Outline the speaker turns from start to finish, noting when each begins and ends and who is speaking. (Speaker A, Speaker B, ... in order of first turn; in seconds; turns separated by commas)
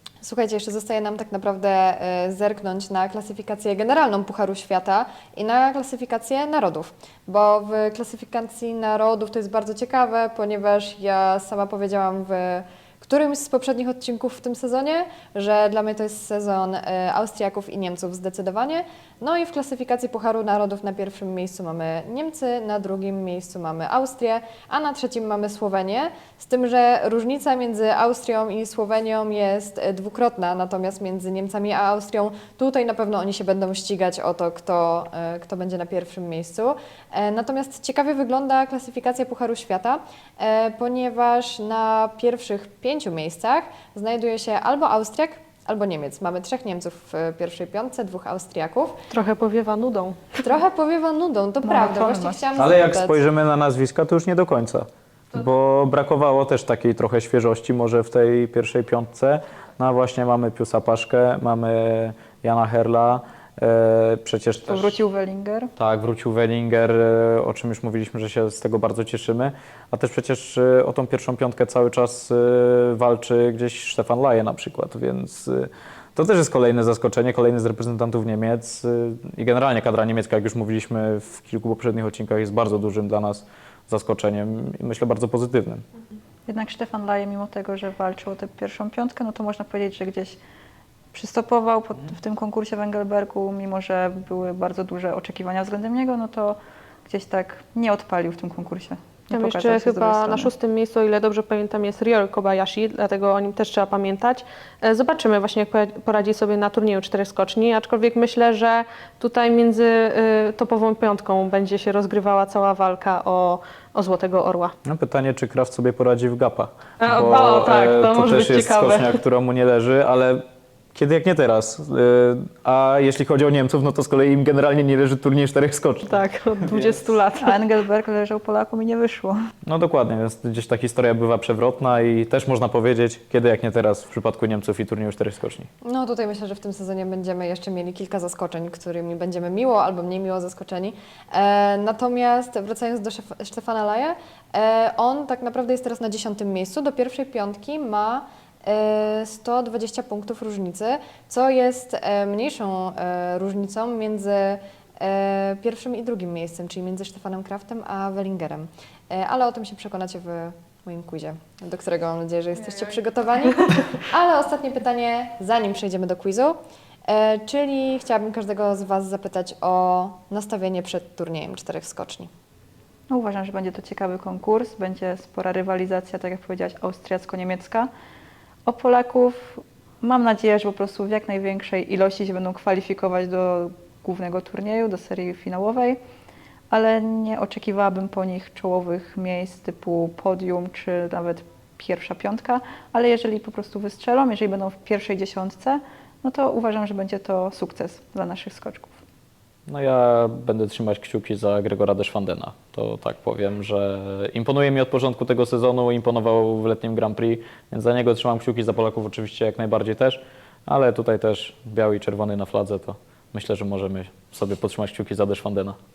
Speaker A: 0.2-49.0, Speaker B: 49.1-50.4, Speaker A: 50.4-53.2, Speaker C: 51.6-52.5, Speaker D: 52.5-65.0, Speaker C: 64.7-65.7, Speaker D: 65.8-85.8, Speaker C: 86.5-90.4, Speaker C: 91.1-100.5, Speaker B: 99.3-114.7, Speaker D: 114.8-127.0, Speaker B: 117.0-119.2, Speaker B: 126.1-127.6, Speaker C: 127.4-129.4, Speaker D: 129.6-135.7, Speaker A: 135.8-172.3, Speaker C: 173.1-177.9, Speaker C: 178.7-186.0, Speaker C: 186.7-198.9, Speaker D: 199.7-215.8